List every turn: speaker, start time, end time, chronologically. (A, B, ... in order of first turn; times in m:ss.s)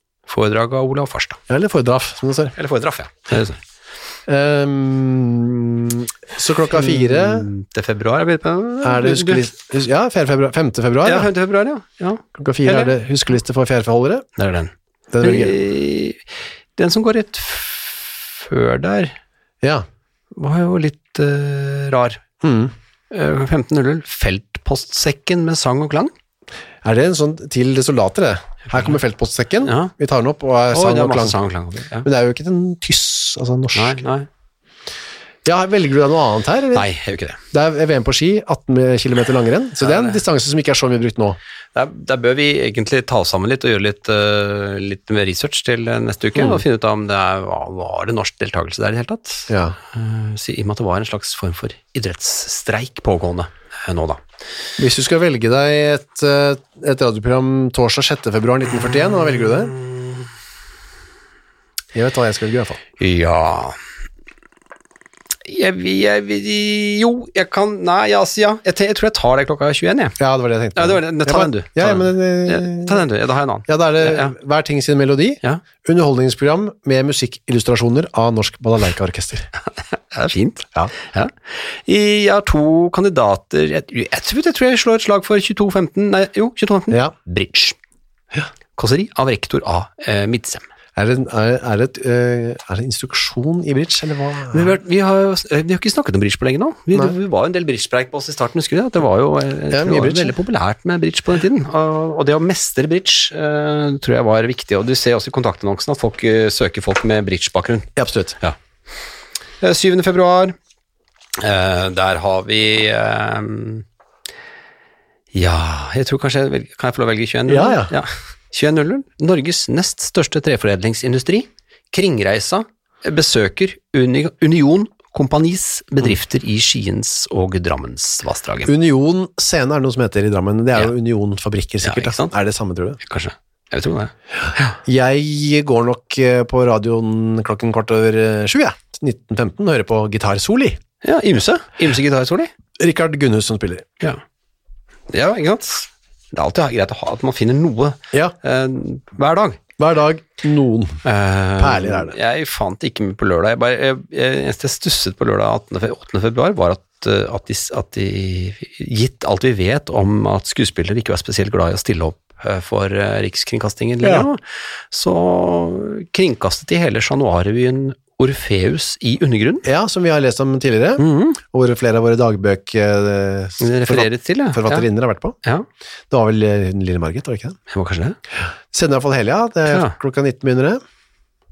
0:00.3-0:01.4 A
0:01.5-0:02.6 B
0:02.6-0:03.6 A
0:04.3-0:07.5 B
0:06.7-0:09.5 A
0:08.8-0:11.3 B
0:11.0-0:12.9 A
0:12.4-0:14.3 B
0:14.4-0:16.2 A
0:15.1-0:15.6 B
0:16.8-0:19.2 A
0:20.3-0:22.2 A
0:22.4-0:22.7 B
0:23.1-0:26.1 A
0:26.8-0:31.4 B
0:29.6-0:29.9 A
0:30.7-0:32.1 A
0:32.0-0:34.0 B
0:33.8-0:34.3 A
0:35.4-0:36.9 B
0:36.7-0:37.4 A
0:37.5-0:41.4 B
0:39.8-0:40.2 A
0:41.7-0:54.2 A
0:46.4-0:46.6 B
0:49.5-0:49.8 B
0:54.8-0:59.8 B
0:59.4-1:00.2 A
1:01.9-1:02.8 B
1:03.0-1:03.8 A
1:05.4-1:10.2 A
1:10.2-1:13.0 B
1:10.8-1:14.3 A
1:13.7-1:19.5 B
1:19.9-1:27.8 A
1:28.8-1:30.6 A
1:31.0-1:34.7 B
1:34.5-1:48.6 A
1:39.7-1:40.4 B
1:48.0-1:48.4 B
1:49.6-1:50.6 A
1:51.4-1:53.8 A
1:55.3-2:08.7 A
1:57.5-1:57.9 B
2:08.7-2:13.0 B
2:11.8-2:12.3 A
2:13.0-2:14.8 A
2:14.8-2:20.8 B
2:21.0-2:22.5 A
2:22.8-2:23.9 B
2:25.1-2:29.6 A
2:29.8-2:31.0 B
2:31.0-2:49.7 A
2:31.6-2:32.1 B
2:44.0-2:44.3 B
2:49.6-2:55.4 B
2:51.0-2:51.4 A
2:53.6-2:54.9 A
2:56.1-2:57.6 B
2:57.7-2:58.2 A
2:58.7-3:00.8 B
2:59.7-3:00.0 A